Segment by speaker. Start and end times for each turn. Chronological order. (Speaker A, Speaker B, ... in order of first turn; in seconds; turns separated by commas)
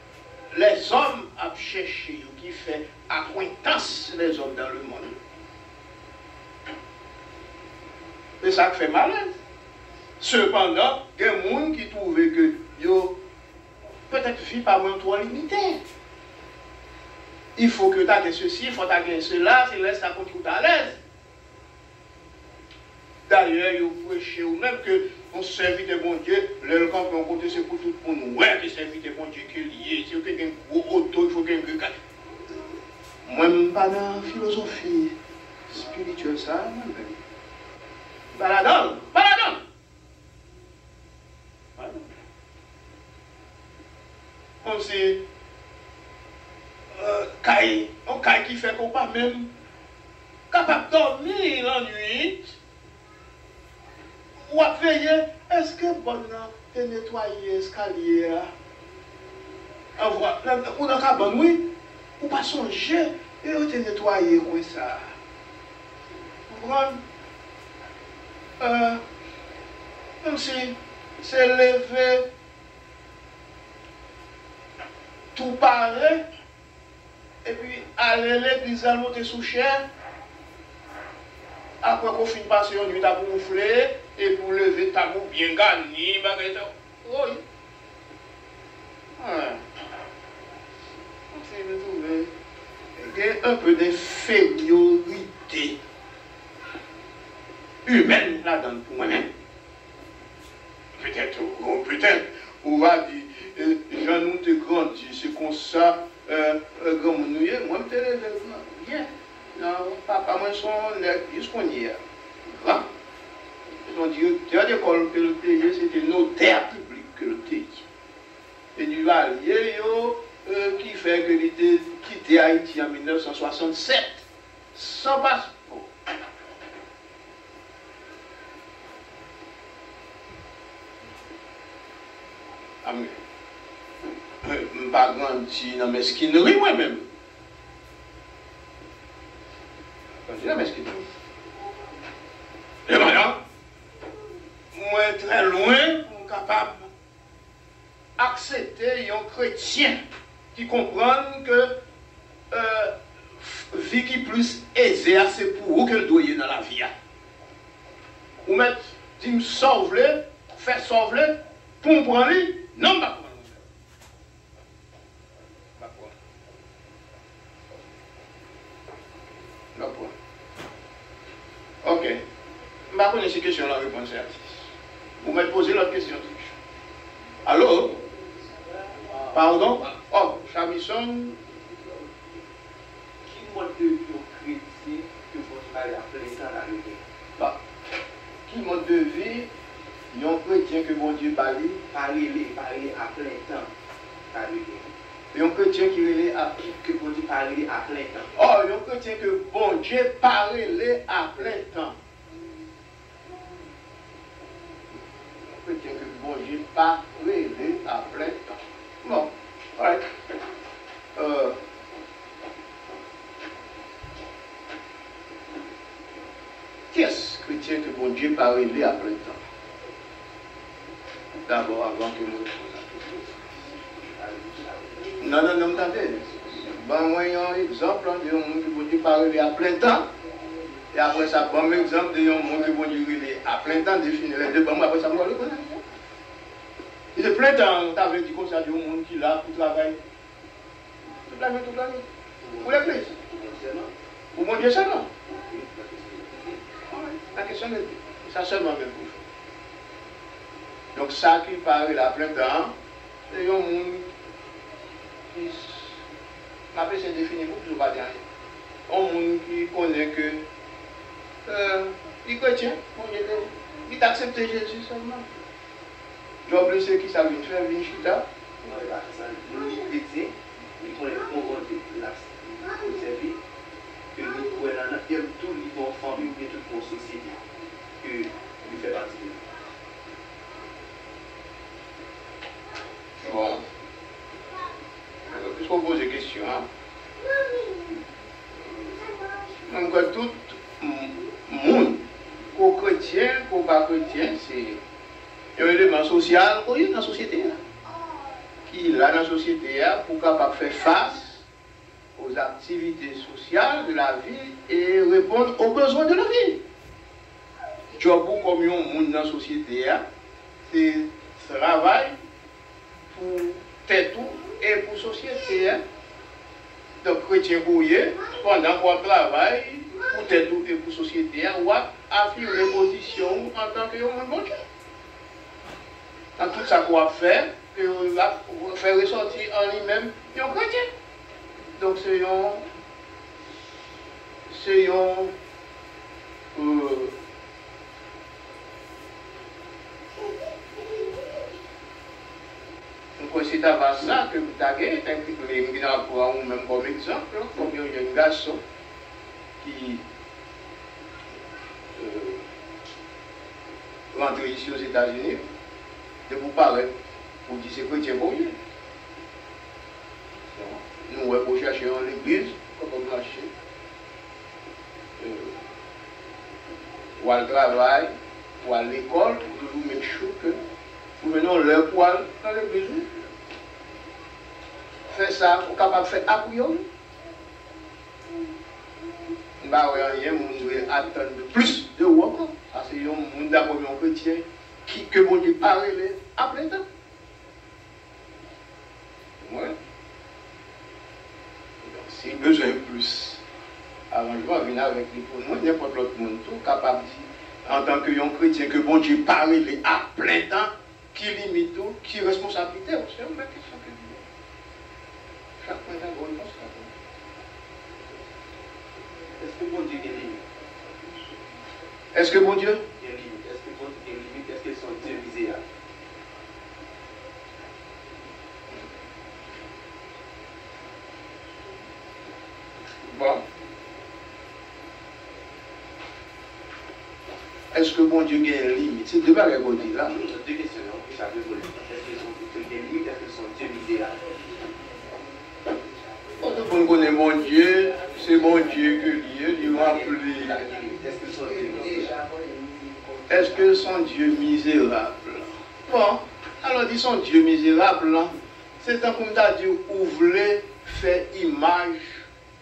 Speaker A: 0.5-5.2, Speaker A: 8.4-9.3, Speaker A: 10.2-13.2, Speaker A: 14.1-15.8, Speaker A: 17.6-21.0, Speaker A: 23.3-31.9, Speaker A: 33.2-35.1, Speaker A: 35.7-37.2, Speaker A: 38.3-39.6, Speaker A: 41.8-42.1, Speaker A: 44.6-45.2, Speaker A: 46.9-49.5, Speaker A: 50.5-52.5, Speaker A: 54.4-58.5, Speaker A: 60.0-61.6, Speaker A: 62.2-65.1, Speaker A: 66.5-67.0, Speaker A: 68.6-69.0, Speaker A: 70.2-72.2, Speaker A: 75.3-76.2, Speaker A: 77.4-79.8, Speaker A: 81.8-87.4, Speaker A: 89.2-89.6, Speaker A: 91.3-92.3, Speaker A: 93.0-95.8, Speaker A: 97.9-99.3, Speaker A: 101.0-112.9, Speaker A: 113.9-117.8, Speaker A: 118.8-124.2, Speaker A: 124.8-125.9, Speaker A: 132.8-133.2, Speaker A: 134.4-137.1, Speaker A: 140.2-141.1, Speaker A: 142.9-143.4, Speaker A: 144.7-146.9, Speaker A: 148.2-150.0, Speaker A: 150.5-151.7, Speaker A: 152.5-156.9, Speaker A: 158.4-163.6, Speaker A: 165.8-166.2, Speaker A: 169.8-170.1, Speaker A: 171.8-172.2, Speaker A: 172.9-174.7, Speaker A: 175.2-176.6, Speaker A: 177.4-178.0, Speaker B: 179.0-179.9, Speaker A: 179.3-181.4, Speaker B: 183.2-187.0, Speaker A: 188.5-189.5, Speaker A: 190.1-191.8, Speaker B: 191.9-193.7, Speaker B: 194.3-194.9, Speaker A: 195.3-196.7, Speaker B: 196.7-198.3, Speaker A: 198.3-202.0, Speaker A: 205.5-210.0, Speaker A: 211.2-211.6, Speaker A: 216.9-219.4, Speaker A: 221.5-223.4, Speaker B: 224.1-225.5, Speaker A: 225.2-230.1, Speaker A: 230.9-235.8, Speaker A: 237.2-240.0, Speaker A: 241.2-242.1, Speaker B: 242.4-243.9, Speaker A: 242.6-243.1, Speaker A: 244.3-245.1, Speaker B: 245.4-246.6, Speaker A: 246.9-249.2, Speaker A: 250.9-252.7, Speaker A: 253.3-254.1, Speaker A: 255.3-256.0, Speaker A: 256.7-258.2, Speaker A: 258.9-260.4, Speaker A: 261.5-265.3, Speaker A: 266.5-268.2, Speaker B: 268.6-273.4, Speaker B: 274.1-277.4, Speaker B: 278.0-279.4, Speaker A: 283.2-283.6, Speaker A: 285.3-286.7, Speaker A: 289.6-292.0, Speaker A: 292.5-294.8, Speaker A: 295.6-297.6, Speaker A: 298.7-301.4, Speaker A: 302.2-306.6, Speaker A: 307.9-310.0, Speaker A: 310.7-312.1, Speaker A: 313.1-315.8, Speaker A: 317.0-324.6, Speaker A: 326.4-330.9, Speaker A: 331.8-332.6, Speaker A: 334.5-335.3, Speaker A: 336.6-337.1, Speaker A: 343.2-348.6, Speaker A: 349.6-350.0, Speaker A: 351.9-352.4, Speaker A: 354.1-355.4, Speaker A: 356.3-356.9, Speaker A: 357.5-358.6, Speaker A: 360.5-363.5, Speaker A: 365.2-365.6, Speaker A: 367.2-370.6, Speaker A: 371.2-373.1, Speaker A: 375.1-376.9, Speaker A: 379.6-386.8, Speaker A: 389.4-389.8, Speaker A: 391.8-393.4, Speaker A: 394.1-404.2, Speaker A: 405.6-406.9, Speaker B: 409.4-410.4, Speaker A: 412.1-412.8, Speaker B: 413.0-415.6, Speaker A: 423.0-423.4, Speaker A: 427.7-430.2, Speaker B: 430.1-434.3, Speaker A: 436.4-440.7, Speaker B: 439.6-442.1, Speaker C: 441.4-443.9, Speaker A: 443.3-452.2